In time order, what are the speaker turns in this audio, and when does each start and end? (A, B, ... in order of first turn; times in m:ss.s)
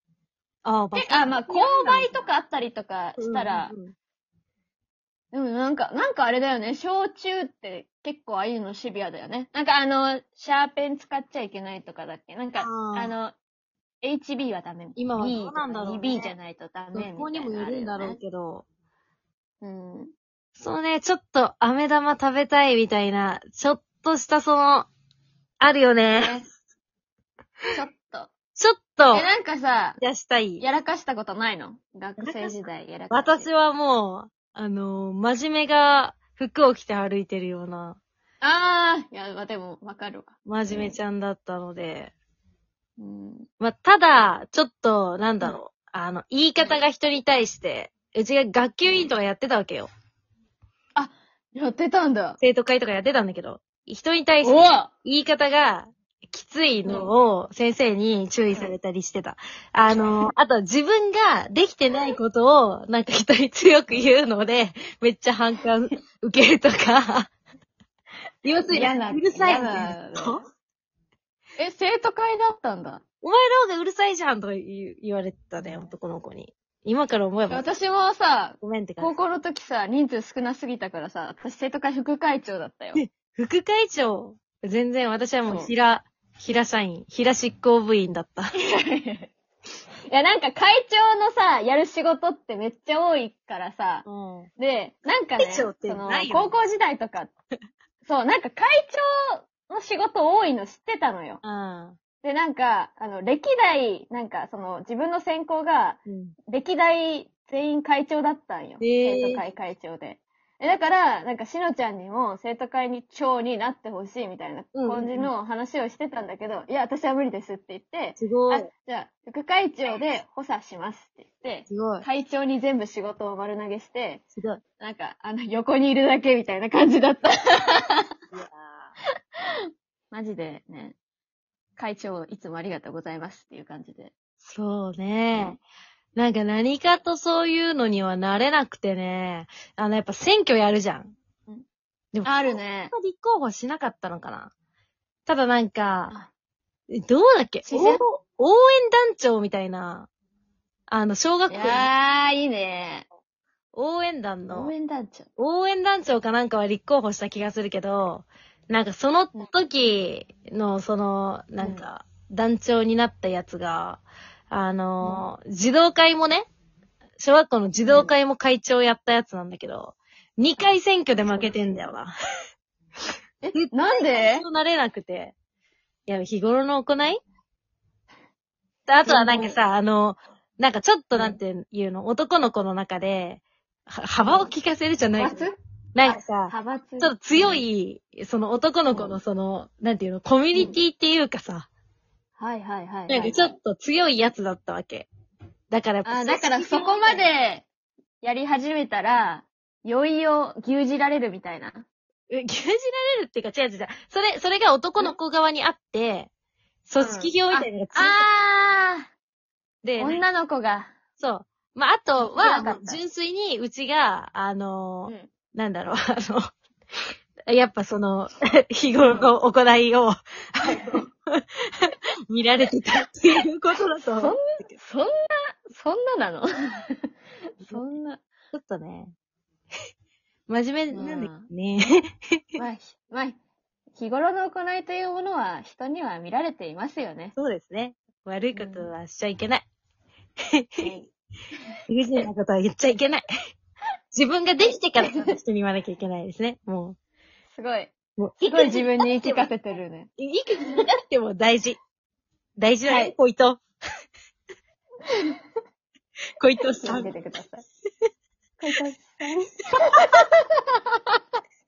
0:00.6-0:02.3 A
0:00.9-0:03.7 B
0:03.2-0:03.9 A
0:05.3-0:13.3 B
0:12.6-0:13.1 A
0:14.0-0:18.2 B
0:15.0-0:16.3 A
0:16.9-0:18.6 A
0:19.6-0:20.1 B
0:20.6-0:24.9 A
0:25.6-0:26.4 A
0:26.2-0:26.5 B
0:27.7-0:28.3 B
0:28.6-0:29.2 A
0:29.1-0:30.0 B
0:30.0-0:30.6 A
0:30.6-0:33.5 B
0:32.2-0:32.6 A
0:33.1-0:38.0 A
0:38.4-0:41.0 B
0:40.4-0:42.1 A
0:43.0-0:43.5 B
0:43.6-0:49.9 A
0:48.8-0:49.1 B
0:51.0-0:52.4 B
0:52.4-1:07.3 A
0:54.4-0:54.9 B
0:56.8-0:57.1 B
1:08.4-1:10.4 A
1:08.7-1:10.4 B
1:11.6-1:13.0 B
1:13.2-1:17.7 A
1:17.5-1:23.0 B
1:18.6-1:19.1 A
1:22.9-1:28.5 A
1:25.4-1:25.7 B
1:28.6-1:29.3 B
1:30.1-1:34.0 B
1:34.0-1:34.5 A
1:34.6-1:37.3 B
1:35.4-1:36.5 A
1:38.0-1:41.4 B
1:41.4-1:42.0 A
1:42.2-2:04.2 B
1:46.0-1:46.4 A
1:48.8-1:49.4 A
1:54.7-1:55.3 A
1:58.2-1:58.7 A
2:01.7-2:02.0 A
2:04.4-2:04.6 A
2:04.8-2:08.1 B
2:08.3-2:08.9 A
2:10.1-2:11.0 B
2:11.8-2:14.1 B
2:14.4-2:15.6 A
2:15.3-2:15.6 B
2:16.1-2:21.1 A
2:22.1-2:24.5 A
2:22.2-2:22.9 B
2:25.2-2:26.1 A
2:26.9-2:30.1 A
2:27.6-2:28.0 B
2:30.9-2:31.9 A
2:31.5-2:33.0 B
2:33.7-2:34.7 A
2:34.5-2:35.3 B
2:35.4-2:46.5 A
2:41.6-2:41.8 B
2:45.0-2:45.2 B
2:47.2-2:52.1 A
2:47.8-2:48.1 B
2:51.2-2:51.8 B
2:53.4-2:54.4 B
2:53.5-2:55.3 A
2:56.1-2:57.2 A
2:58.9-3:05.4 A
2:59.0-2:59.6 B
3:04.2-3:04.5 B
3:05.2-3:05.5 B
3:05.9-3:11.7 A
3:06.0-3:07.6 B
3:08.9-3:09.2 B
3:12.4-3:13.5 B
3:13.1-3:15.1 A
3:15.7-3:17.3 A
3:16.0-3:17.6 B
3:18.2-3:21.9 B
3:22.3-3:26.3 A
3:26.9-3:28.2 A
3:27.0-3:29.0 B
3:29.8-3:30.2 A
3:30.0-3:30.9 B
3:31.2-3:36.4 A
3:32.2-3:33.0 B
3:37.5-3:44.4 A
3:40.7-3:41.0 B
3:44.1-3:47.1 B
3:47.6-3:48.2 B
3:48.5-3:49.1 A
3:50.5-3:52.4 A
3:50.9-3:51.5 B
3:52.6-3:53.4 B
3:53.9-3:57.4 B
3:57.4-3:59.6 A
3:58.5-3:58.9 B
4:00.5-4:00.9 A
4:00.8-4:01.1 B
4:01.9-4:03.2 A
4:04.1-4:07.0 A
4:04.6-4:05.4 B
4:07.5-4:10.1 B
4:08.2-4:09.5 A
4:10.2-4:11.8 A
4:12.6-4:13.6 A
4:12.9-4:13.1 B
4:15.1-4:15.4 B
4:16.4-4:17.1 A
4:16.7-4:17.6 B
4:18.6-4:21.2 B